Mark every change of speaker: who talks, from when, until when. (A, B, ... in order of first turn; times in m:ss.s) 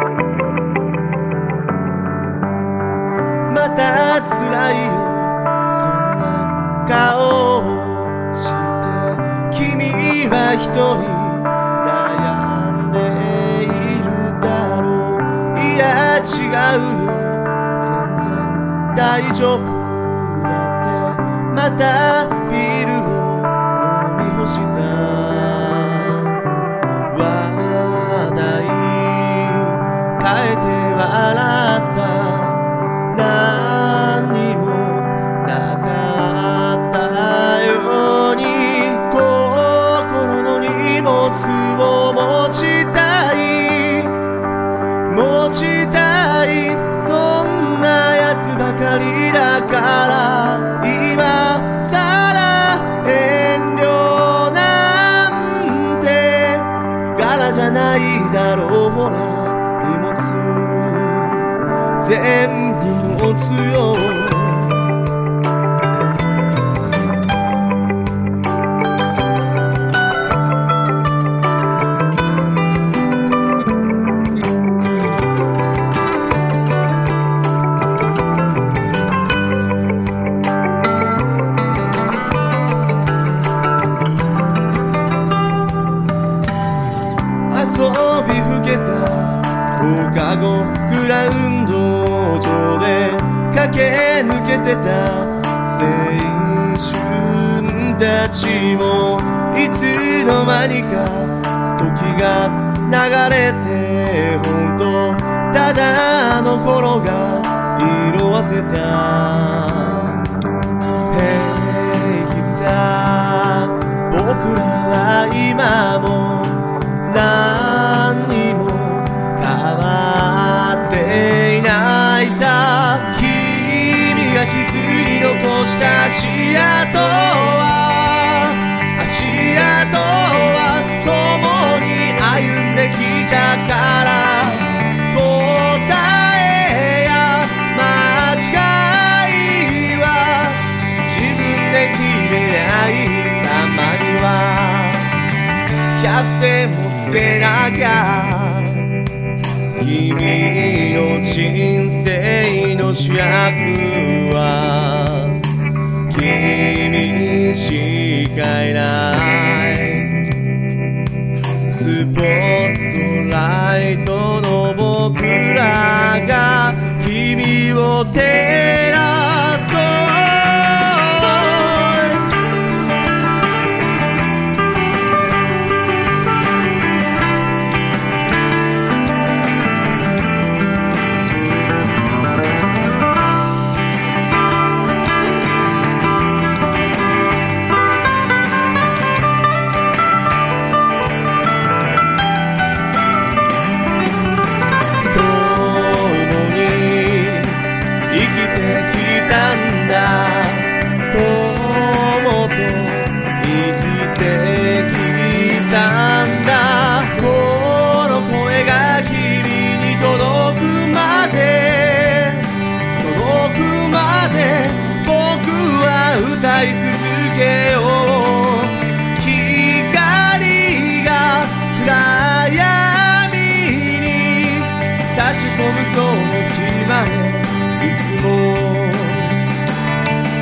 0:03.5-0:26.4 A
0:27.1-0:44.2 A
0:45.1-1:04.8 A
1:27.5-1:50.2 A
1:51.1-2:25.1 A
2:26.0-2:28.9 A
2:29.8-2:35.4 A
2:36.1-2:40.2 A
2:41.7-2:52.3 A
3:15.1-3:49.4 A